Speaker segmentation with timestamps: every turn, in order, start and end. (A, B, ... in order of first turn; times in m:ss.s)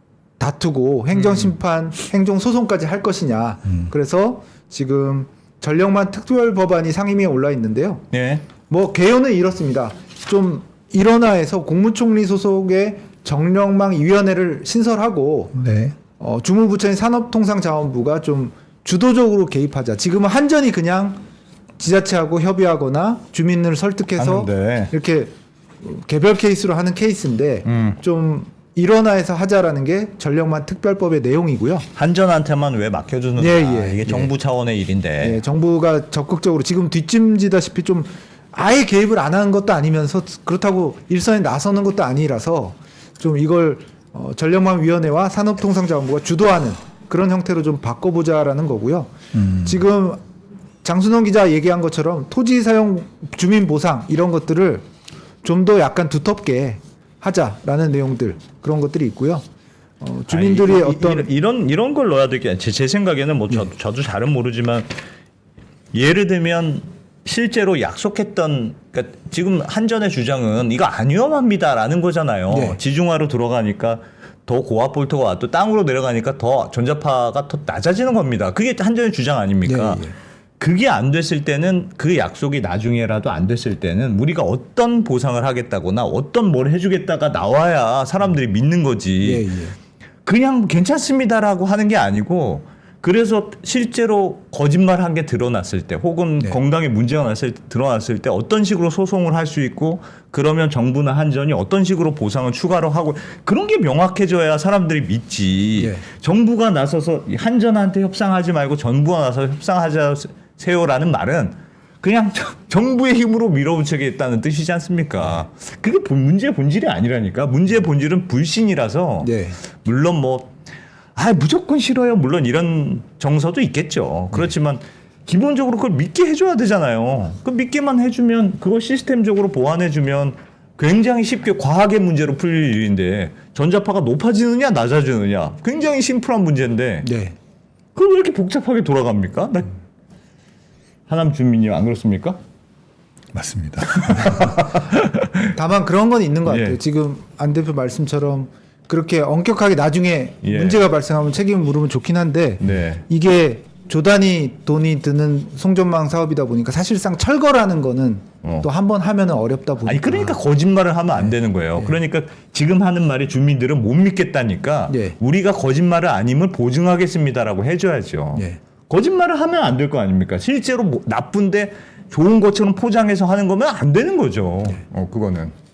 0:00.4-0:08.0 A
0:01.1-0:01.5 B
0:08.1-0:08.4 B
0:08.7-0:21.2 A
0:15.6-0:15.9 C
0:21.8-0:31.9 A
0:24.2-0:24.9 B
0:27.6-0:28.0 B
0:32.0-0:35.4 B
0:33.4-0:34.3 A
0:35.2-0:50.2 A
0:49.4-0:49.7 C
0:50.8-0:54.8 A
0:55.4-0:59.4 A
1:00.0-1:01.3 A
1:00.3-1:05.0 B
1:05.9-1:29.5 B
1:12.5-1:12.8 A
1:19.6-1:20.1 A
1:29.2-1:29.8 A
1:30.2-1:59.3 B
1:45.8-1:46.0 A
1:59.2-1:59.6 A
1:59.8-2:00.5 B
2:01.2-2:17.1 B
2:17.0-2:17.4 A
2:17.9-2:19.8 B
2:21.1-2:22.4 B
2:23.3-2:24.6 C
2:24.0-2:25.5 B
2:25.5-2:40.4 A
2:26.4-2:26.8 B
2:30.4-2:30.8 B
2:32.6-2:33.0 B
2:39.8-2:55.5 B
2:41.2-2:42.0 A
2:44.9-2:45.2 A